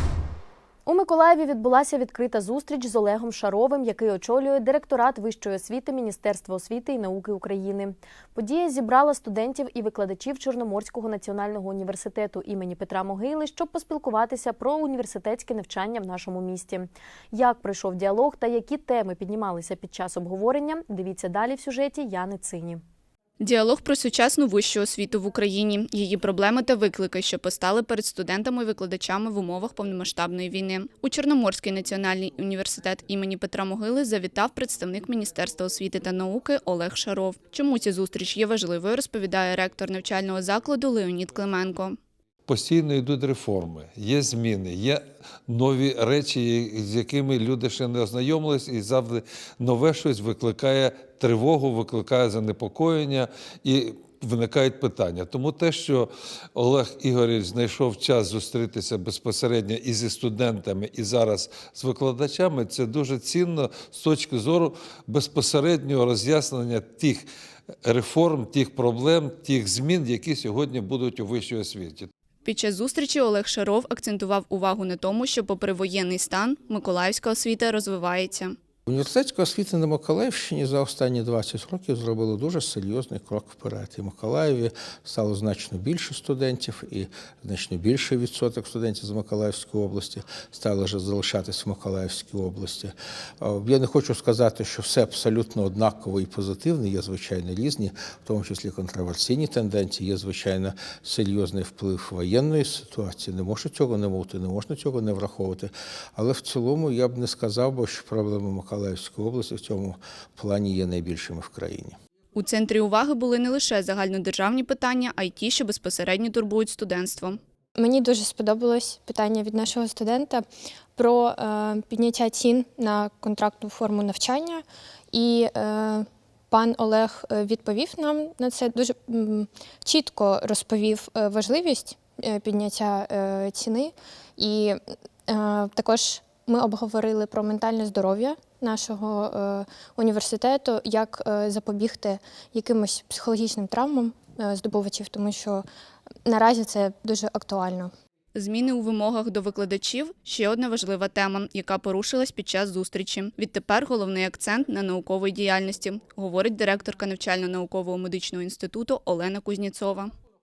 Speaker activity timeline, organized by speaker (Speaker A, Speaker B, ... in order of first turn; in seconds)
Speaker A: 0.8-22.8
Speaker B: 23.4-42.0, 72.4-78.5, 112.3-117.4, 148.3-160.1
Speaker C: 42.5-67.2, 67.8-72.1
Speaker D: 78.8-112.0
Speaker E: 117.8-145.7, 146.2-147.9